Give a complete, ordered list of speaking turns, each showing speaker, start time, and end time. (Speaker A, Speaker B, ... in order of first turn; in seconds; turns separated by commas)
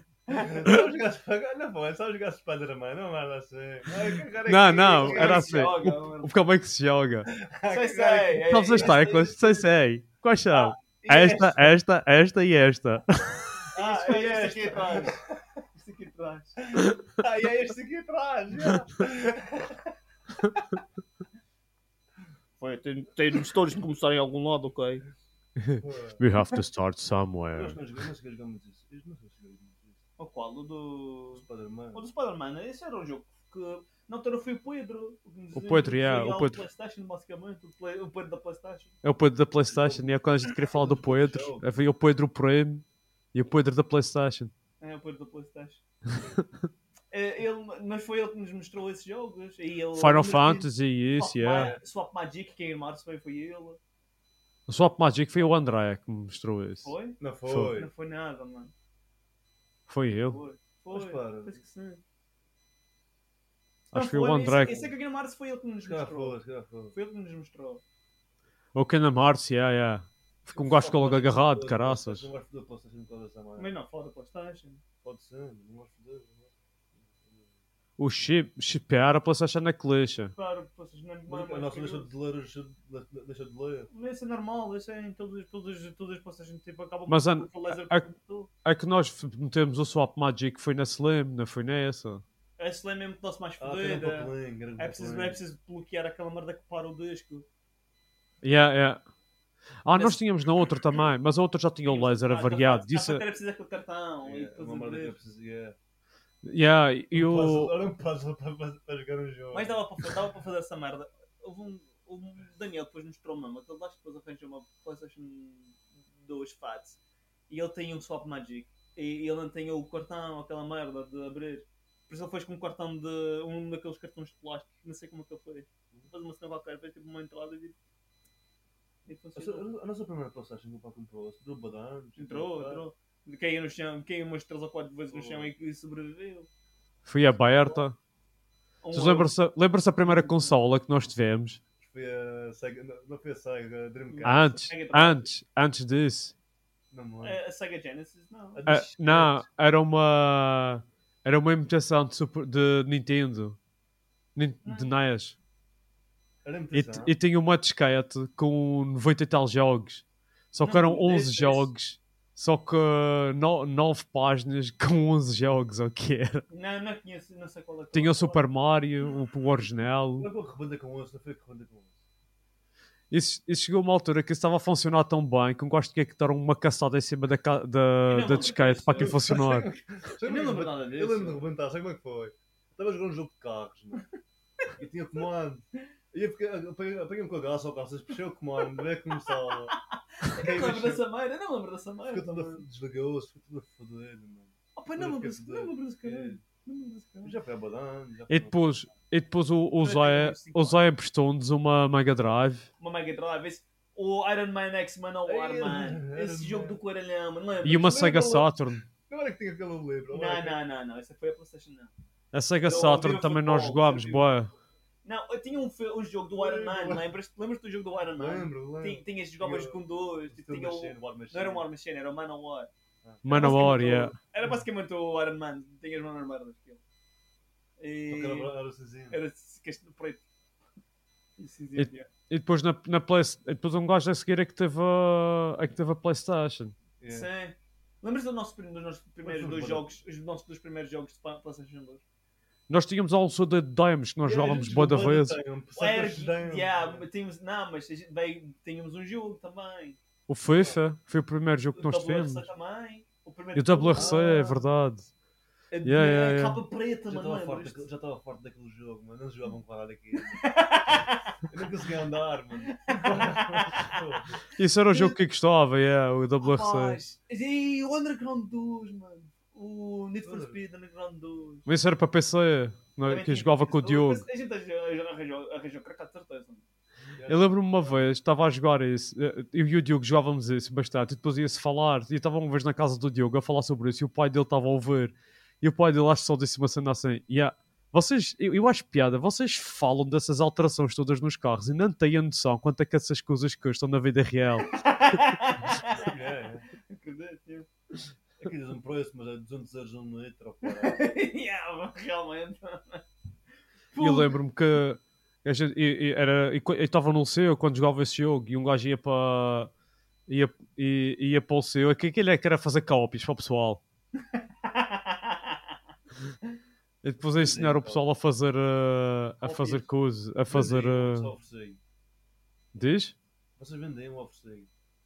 Speaker A: 0.3-0.8, Speaker B: 0.4-5.6, Speaker C: 4.5-7.3, Speaker A: 4.7-6.3, Speaker B: 7.3-9.2, Speaker A: 7.7-9.7, Speaker C: 8.4-13.5, Speaker A: 10.5-11.6, Speaker B: 11.0-11.5, Speaker B: 13.7-15.5, Speaker A: 13.7-15.2, Speaker A: 15.7-16.6, Speaker B: 16.7-19.8, Speaker A: 22.6-25.0, Speaker C: 25.6-27.8, Speaker B: 25.8-26.2, Speaker B: 27.5-30.0, Speaker A: 30.2-38.9, Speaker B: 31.4-32.0, Speaker C: 35.5-36.6, Speaker C: 39.0-44.5, Speaker B: 39.7-41.7, Speaker A: 44.8-45.8, Speaker A: 47.1-53.8, Speaker C: 49.9-51.7, Speaker C: 54.7-56.9, Speaker A: 56.8-58.7, Speaker B: 57.2-57.9, Speaker C: 57.5-57.7, Speaker C: 59.9-60.4, Speaker A: 60.3-62.0, Speaker B: 60.9-61.6, Speaker C: 63.9-64.9, Speaker A: 63.9-66.4, Speaker B: 65.9-66.9, Speaker A: 66.9-67.8, Speaker C: 68.8-72.3, Speaker B: 70.5-73.7, Speaker A: 73.6-74.8, Speaker B: 75.0-77.5, Speaker C: 78.0-80.3, Speaker A: 80.4-82.1, Speaker B: 81.3-83.9, Speaker A: 83.9-88.5, Speaker C: 87.1-88.0, Speaker C: 88.6-92.2, Speaker A: 92.6-97.5, Speaker B: 93.6-95.4, Speaker C: 98.4-99.0, Speaker C: 99.8-103.2, Speaker A: 99.9-100.2, Speaker A: 101.9-105.2, Speaker B: 104.2-105.8, Speaker C: 106.4-107.8, Speaker B: 107.1-109.8, Speaker A: 109.5-127.8, Speaker A: 129.1-129.7, Speaker B: 129.3-132.8, Speaker A: 132.2-136.5, Speaker B: 135.1-135.5, Speaker C: 137.1-138.0, Speaker A: 137.5-137.8, Speaker A: 138.8-139.3, Speaker C: 138.9-141.6, Speaker A: 140.0-140.5, Speaker B: 141.8-144.4, Speaker A: 144.1-145.2, Speaker C: 144.2-146.3, Speaker B: 146.9-147.4, Speaker A: 147.2-148.6, Speaker B: 148.5-149.4, Speaker C: 148.7-153.6, Speaker C: 154.3-155.3, Speaker A: 154.6-155.0, Speaker B: 156.4-157.2, Speaker C: 156.7-166.4, Speaker A: 160.6-161.7, Speaker A: 166.5-168.4, Speaker C: 167.9-170.3, Speaker B: 170.2-171.9, Speaker C: 173.1-179.7, Speaker A: 178.1-179.2, Speaker B: 179.0-184.1, Speaker A: 180.2-181.4, Speaker B: 184.8-189.7, Speaker A: 189.7-192.6, Speaker B: 190.3-191.0, Speaker B: 192.1-196.4, Speaker A: 194.8-197.4, Speaker B: 197.2-198.6, Speaker C: 198.3-202.7, Speaker A: 199.8-200.8, Speaker A: 202.8-208.4, Speaker B: 205.3-206.8, Speaker C: 207.6-208.8, Speaker B: 208.0-210.6, Speaker A: 210.1-211.9, Speaker C: 212.3-214.5, Speaker A: 212.6-214.3, Speaker A: 215.1-222.7, Speaker B: 216.3-217.1, Speaker B: 218.2-221.7, Speaker B: 223.0-223.6, Speaker C: 223.2-224.2, Speaker A: 223.3-226.8, Speaker A: 227.8-228.5, Speaker B: 228.1-229.2, Speaker A: 229.1-230.2, Speaker A: 231.4-232.1, Speaker C: 231.8-236.7, Speaker B: 237.0-237.3, Speaker A: 237.1-242.0, Speaker B: 239.2-239.9, Speaker C: 242.7-245.4, Speaker B: 244.2-247.0, Speaker A: 244.3-244.7, Speaker A: 245.8-250.0, Speaker C: 250.3-252.5, Speaker A: 251.8-254.6, Speaker C: 253.6-255.1, Speaker B: 253.9-254.4, Speaker A: 255.7-257.9, Speaker C: 255.8-256.6, Speaker B: 257.1-264.4, Speaker A: 260.4-261.3, Speaker A: 262.8-264.0, Speaker C: 264.6-267.0, Speaker A: 264.9-265.2, Speaker A: 266.4-271.7, Speaker B: 270.2-270.6, Speaker C: 271.7-274.2, Speaker A: 273.0-276.6, Speaker B: 277.1-277.5, Speaker C: 277.3-294.8, Speaker A: 294.7-296.1, Speaker B: 295.9-296.7, Speaker A: 296.9-297.7, Speaker B: 298.4-301.0, Speaker A: 300.6-303.0, Speaker A: 303.9-304.4, Speaker C: 304.0-309.7, Speaker C: 310.3-313.8, Speaker A: 314.6-315.6, Speaker C: 317.0-321.3, Speaker B: 317.3-318.0, Speaker A: 319.4-319.9, Speaker B: 320.5-321.8, Speaker C: 322.7-323.2, Speaker B: 323.6-324.7